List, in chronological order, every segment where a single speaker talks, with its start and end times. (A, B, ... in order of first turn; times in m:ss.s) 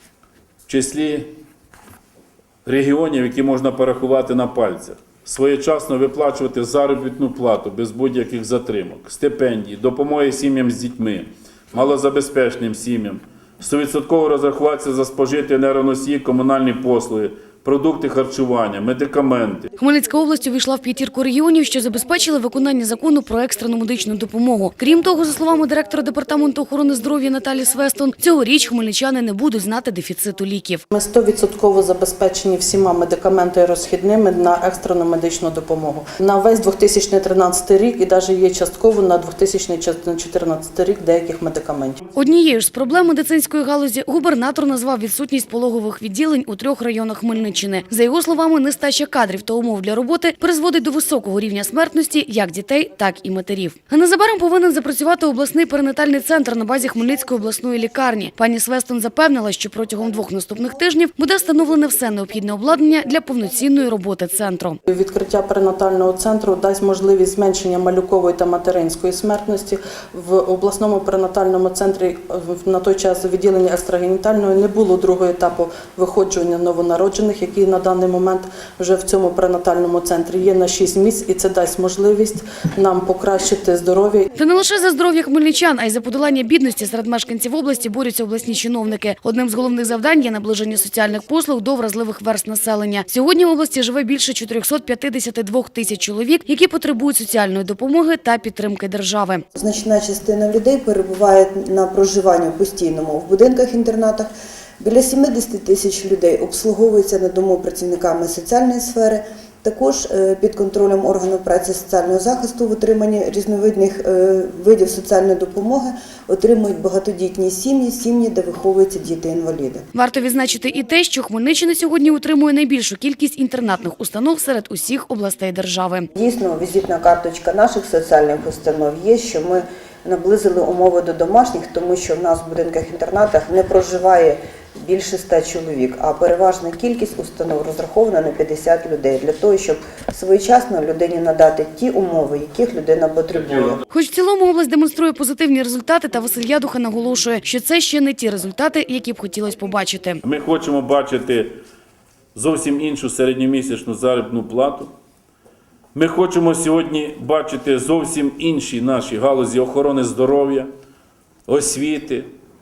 0:00.7-0:01.3 A
0:02.7-0:19.7 A
0:19.8-0:30.8 B
0:30.9-0:42.0 C
0:42.2-1:04.8 B
1:04.9-1:24.3 C
1:24.4-1:39.4 B
1:39.6-1:59.9 D
1:59.9-2:06.1 B
2:06.2-2:23.8 D
2:23.9-2:30.2 B
2:30.2-2:31.6 A
2:32.4-2:34.9 A
2:36.0-2:40.7 A
2:41.5-2:42.3 A